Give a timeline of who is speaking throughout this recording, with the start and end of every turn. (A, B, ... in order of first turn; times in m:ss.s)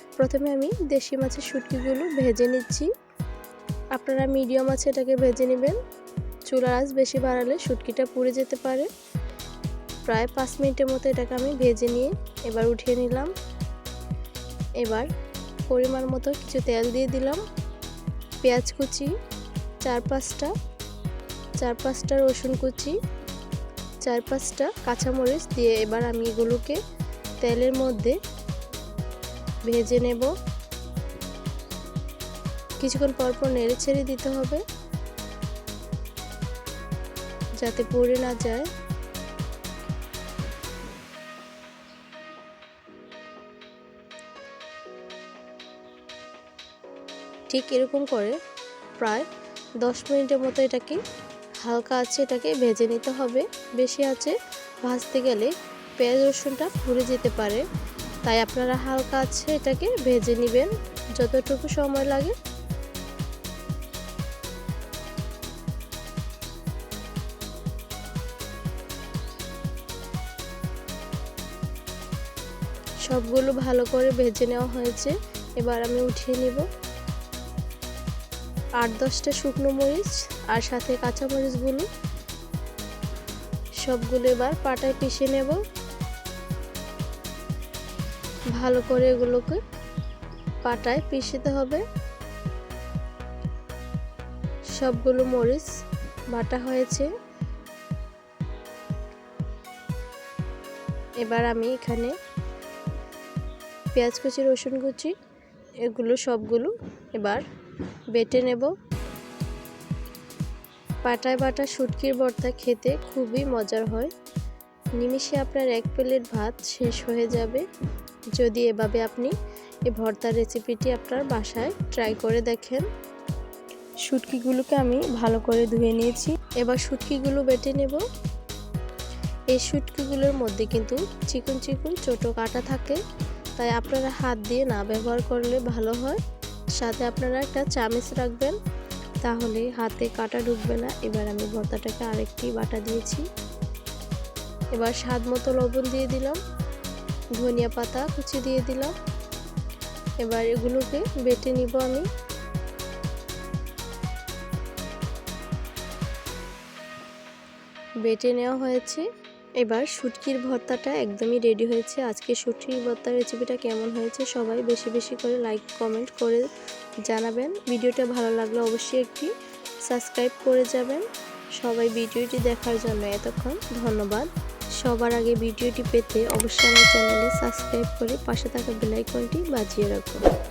0:00.2-0:02.9 A
0:03.9-0:05.8 A
0:06.5-0:08.9 A
0:10.0-0:13.3 A
0:14.8-0:15.1 A
0:15.7-0:17.4 A
0:18.4-0:19.1 A
0:19.8-0:20.5 A
0:21.6-0:23.0 A
0:24.0-0:26.8 A
0:27.4-0:28.2 A
0:29.6-0:30.3 A
0:32.8-0:34.6 A
0:37.6-0:38.6 A
0:47.5-0:48.4 A
0:49.0-0:49.2 A
0:49.8-0:51.0 A
0:51.6-0:57.6 A
0:58.2-1:02.4 A
1:13.0-1:16.6 A
1:18.8-1:21.9 A
1:23.8-1:25.6 A
1:28.5-1:29.6 A
1:30.6-1:31.8 A
1:34.8-1:35.7 A
1:36.3-1:37.1 A
1:41.2-1:42.1 A
1:43.9-1:45.1 A
1:45.9-1:47.4 A
1:48.1-1:48.7 A
1:51.0-1:54.1 A
1:55.0-1:57.6 A
1:58.4-1:59.3 A
1:59.9-2:02.8 A
2:04.0-2:08.0 A
2:09.5-2:13.0 A
2:13.6-2:16.2 A
2:16.8-2:18.6 A
2:19.2-2:23.2 A
2:24.7-2:26.4 A
2:27.4-2:28.9 A
2:30.2-2:32.1 A
2:38.0-2:39.0 A
2:39.6-2:46.5 A
2:47.0-2:49.3 A
2:49.9-2:51.0 A
2:51.6-2:54.3 A
2:54.8-3:00.2 A